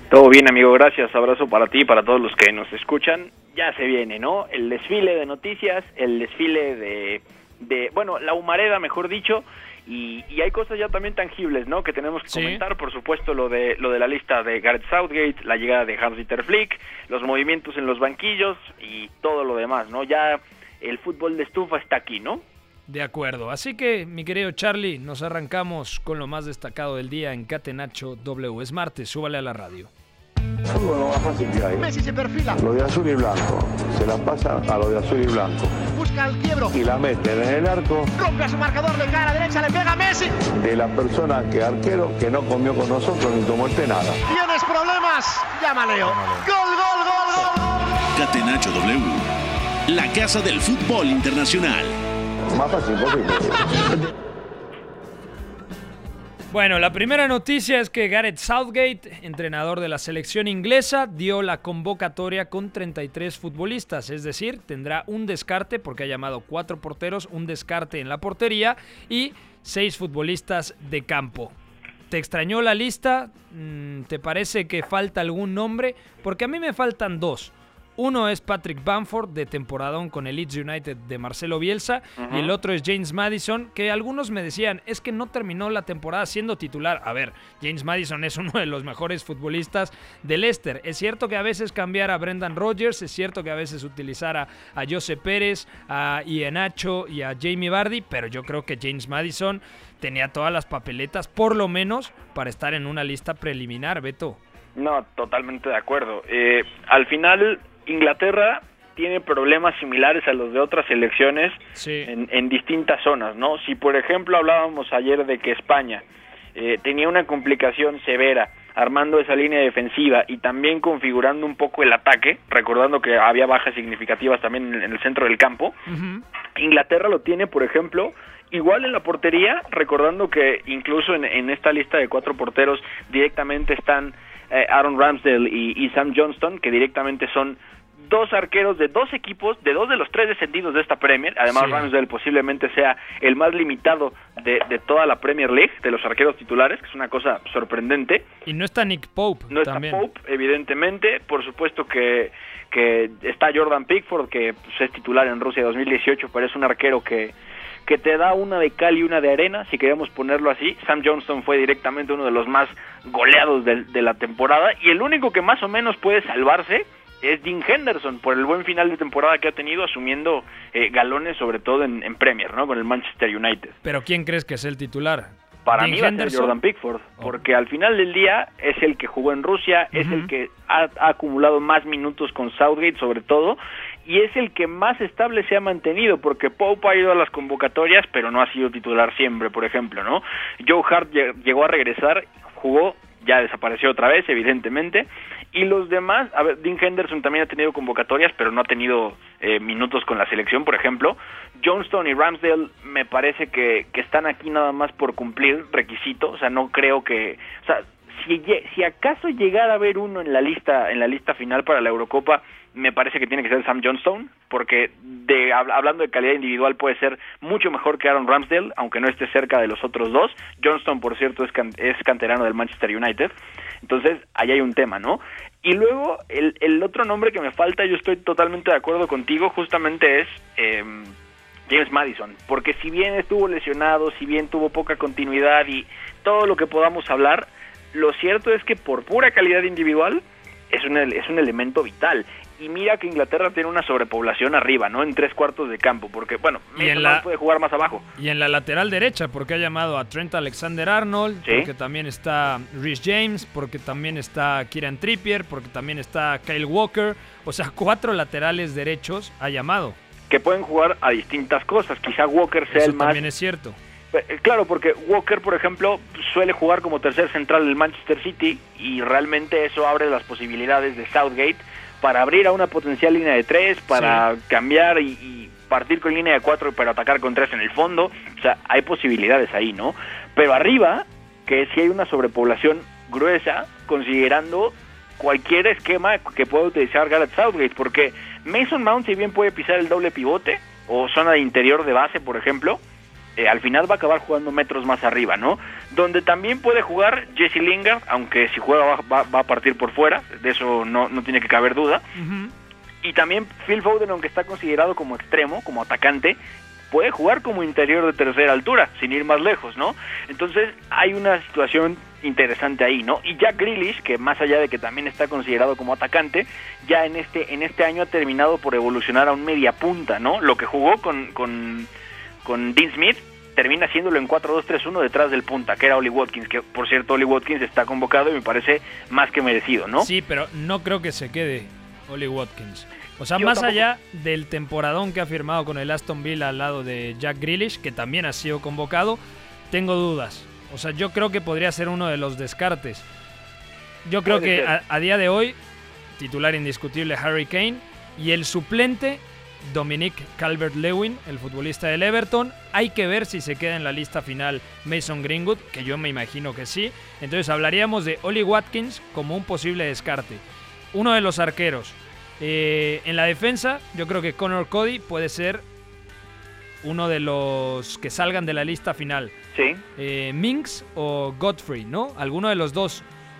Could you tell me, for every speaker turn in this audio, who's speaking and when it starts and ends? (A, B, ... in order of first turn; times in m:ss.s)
0:00.1-0:22.4 A
0:12.3-0:12.6 B
0:22.9-0:29.9 B
0:30.7-0:31.9 C
0:31.8-0:32.6 D
0:32.6-0:35.8 C
0:35.9-0:36.7 D
0:36.7-0:38.1 C
0:38.2-0:40.4 D
0:40.5-0:44.2 C
0:44.3-0:47.5 D
0:46.0-0:46.5 B
0:48.2-0:49.2 E
0:49.9-0:51.9 E
0:52.5-0:53.7 C
0:56.5-1:11.5 B
1:12.1-1:44.4 B
1:22.2-1:22.5 A
1:44.8-1:56.0 A
1:51.8-1:52.1 B
1:56.6-2:05.8 A
2:05.9-2:06.2 B
2:06.6-2:28.2 A
2:21.5-2:21.9 B
2:28.4-2:30.0 B
2:29.5-2:37.3 A
2:37.8-2:53.7 A
2:53.8-2:56.6 B
2:55.6-3:51.1 A
2:59.9-3:00.3 B
3:51.7-4:08.0 A
4:06.8-4:07.2 B
4:08.2-4:20.0 B
4:20.3-4:23.2 A
4:22.7-4:23.8 B
4:24.1-4:52.8 A
4:33.9-4:34.2 B
4:53.4-5:02.0 A
5:02.2-5:02.5 B
5:03.0-5:06.4 A
5:06.9-5:21.9 A
5:22.4-5:30.1 A
5:30.0-5:43.0 B
5:33.4-5:33.8 A
5:44.0-5:45.6 B
5:44.2-5:44.7 A
5:46.2-6:00.4 B
6:00.9-6:05.6 B
6:06.8-6:09.3 B
6:09.5-6:09.8 A
6:10.0-6:13.0 B